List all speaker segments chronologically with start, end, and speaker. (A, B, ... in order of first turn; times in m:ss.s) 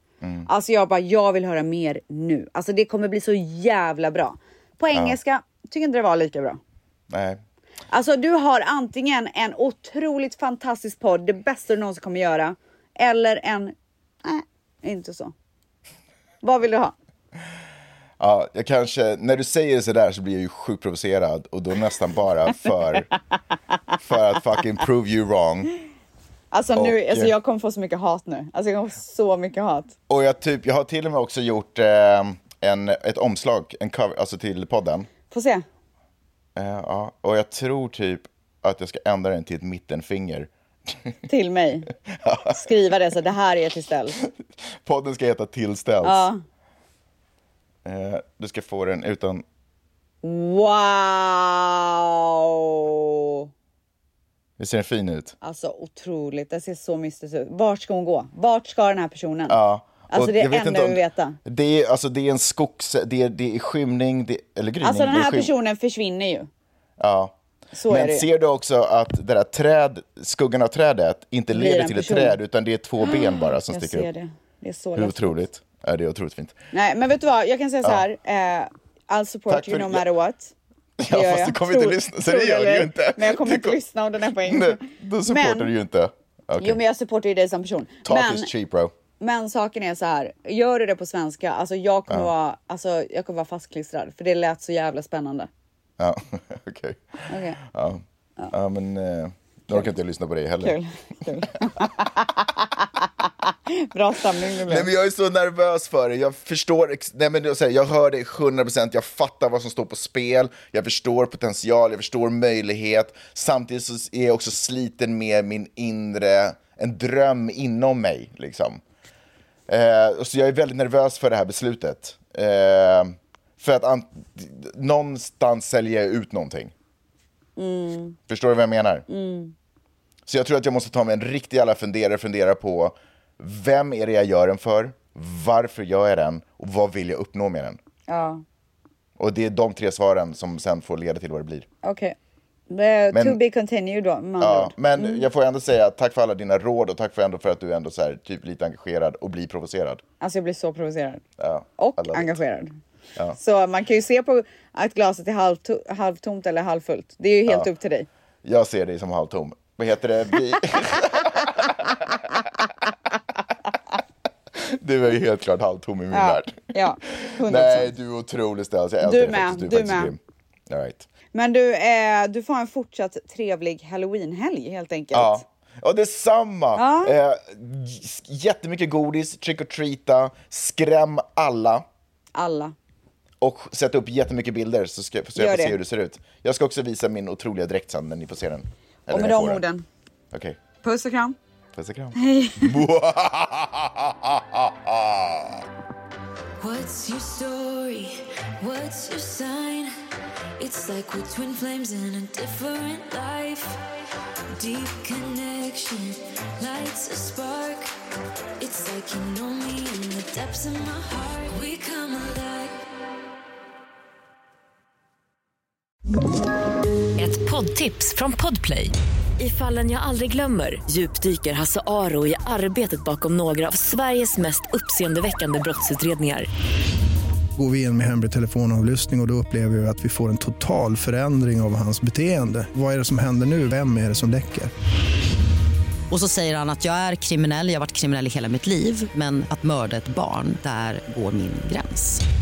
0:00.2-0:00.5 A
0:00.5-0:06.6 B
0:07.1-0:07.4 A
0:07.9-0:15.3 B
0:16.4-0:16.9 B
0:18.2-0:23.1 A
0:24.0-0:25.7 A
0:26.5-0:29.9 B
0:26.7-0:27.3 A
0:30.1-0:35.1 A
0:35.3-0:35.6 B
0:36.6-0:41.1 A
0:41.2-0:41.9 B
0:42.1-0:42.6 A
0:42.5-0:44.2 B
0:44.8-0:46.3 A
0:46.0-0:46.4 B
0:47.8-0:49.4 A
0:50.2-0:53.5 B
0:54.6-0:55.3 A
0:55.4-0:59.6 B
0:59.5-1:05.5 A
1:00.1-1:01.4 B
1:04.8-1:06.5 B
1:07.0-1:07.3 A
1:07.7-1:08.2 B
1:07.9-1:14.1 A
1:11.5-1:12.4 B
1:13.0-1:15.4 B
1:15.0-1:16.5 A
1:16.7-1:20.5 B
1:19.5-1:20.0 A
1:21.0-1:23.8 A
1:21.0-1:25.7 B
1:24.4-1:26.8 A
1:26.6-1:28.5 B
1:28.0-1:28.9 A
1:29.2-1:35.5 B
1:36.0-1:37.0 A
1:37.3-1:37.6 B
1:37.6-1:40.8 A
1:40.6-1:44.9 B
1:44.6-1:58.8 A
1:59.7-2:06.7 A
2:07.6-2:08.2 B
2:08.3-2:09.0 A
2:09.1-2:09.5 B
2:10.2-2:17.8 A
2:18.1-2:18.4 B
2:19.2-2:21.7 A
2:21.8-2:22.2 B
2:22.7-2:25.2 B
2:23.1-2:23.4 A
2:24.4-2:30.0 A
2:30.2-2:31.2 B
2:31.4-2:32.4 A
2:31.8-2:32.8 B
2:33.4-2:38.1 B
2:38.4-2:41.9 A
2:44.5-2:50.2 A
2:46.1-2:47.9 B
2:49.0-2:50.1 B
2:50.7-2:51.1 A
2:51.3-2:55.4 B
2:55.1-3:01.8 A
2:56.7-2:57.2 B
3:02.3-3:02.7 B
3:03.4-3:09.6 A
3:05.4-3:05.8 B
3:09.1-3:09.8 B
3:10.3-3:10.6 A
3:10.8-3:11.4 B
3:11.7-3:15.6 A
3:12.2-3:12.8 B
3:16.6-3:19.9 C
3:20.6-3:23.8 C
3:24.6-3:27.9 C
3:28.6-3:32.7 C
3:37.2-3:46.5 D
3:47.6-3:54.7 E
3:56.1-4:02.2 F